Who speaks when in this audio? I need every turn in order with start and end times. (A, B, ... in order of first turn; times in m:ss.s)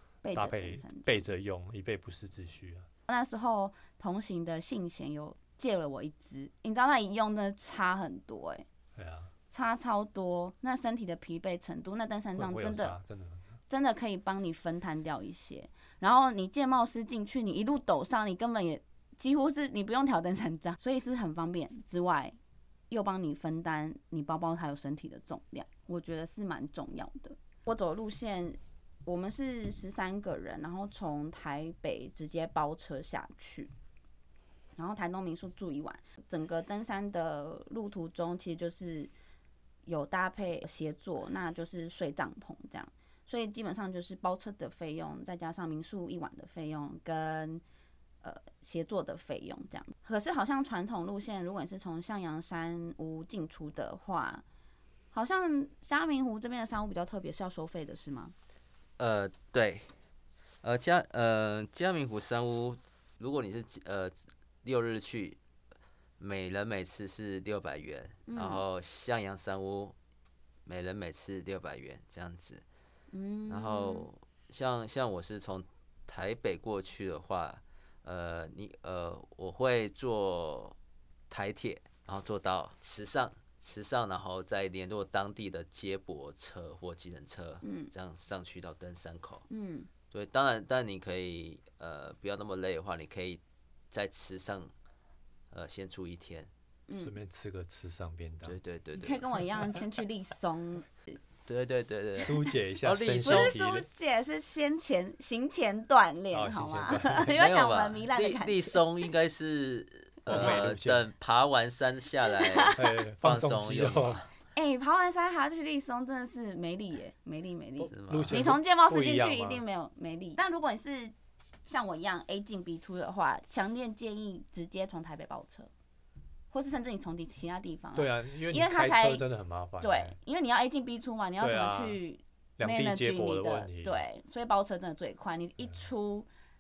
0:00.2-0:01.2 A
0:00.3-0:02.9 B
0:03.1-0:08.7 A
0:09.0-0:09.3 B
0:09.5-0:13.0 A
0:12.4-0:13.5 B
0:13.7-0:22.4 A
0:22.9-0:33.7 A
0:34.8-0:39.1 A
0:39.9-0:47.6 A
0:48.2-0:54.4 A
0:55.1-0:58.3 A
0:59.0-0:59.9 C
1:00.6-1:05.4 C
1:06.2-1:10.0 C
1:08.3-1:08.6 A
1:10.7-1:12.6 C
1:13.1-1:14.1 A
1:13.5-1:20.8 C
1:21.3-1:29.4 C
1:27.6-1:27.9 A
1:29.5-1:29.9 A
1:30.1-1:34.7 C
1:35.5-1:36.5 C
1:36.9-1:37.1 A
1:37.0-1:38.6 B
1:38.4-1:39.2 C
1:39.0-1:41.2 A
1:41.5-1:43.6 C
1:42.2-1:43.9 B
1:43.2-1:48.8 A
1:46.3-1:47.4 B
1:47.3-1:54.3 C
1:50.3-1:51.0 B
1:50.3-1:50.6 A
1:52.3-1:53.0 A
1:52.8-1:54.3 B
1:54.5-2:05.7 A
1:57.8-1:59.6 B
1:57.9-1:58.5 C
2:06.5-2:09.2 A
2:08.0-2:10.2 B
2:09.8-2:16.3 A
2:11.4-2:12.0 B
2:12.6-2:14.0 B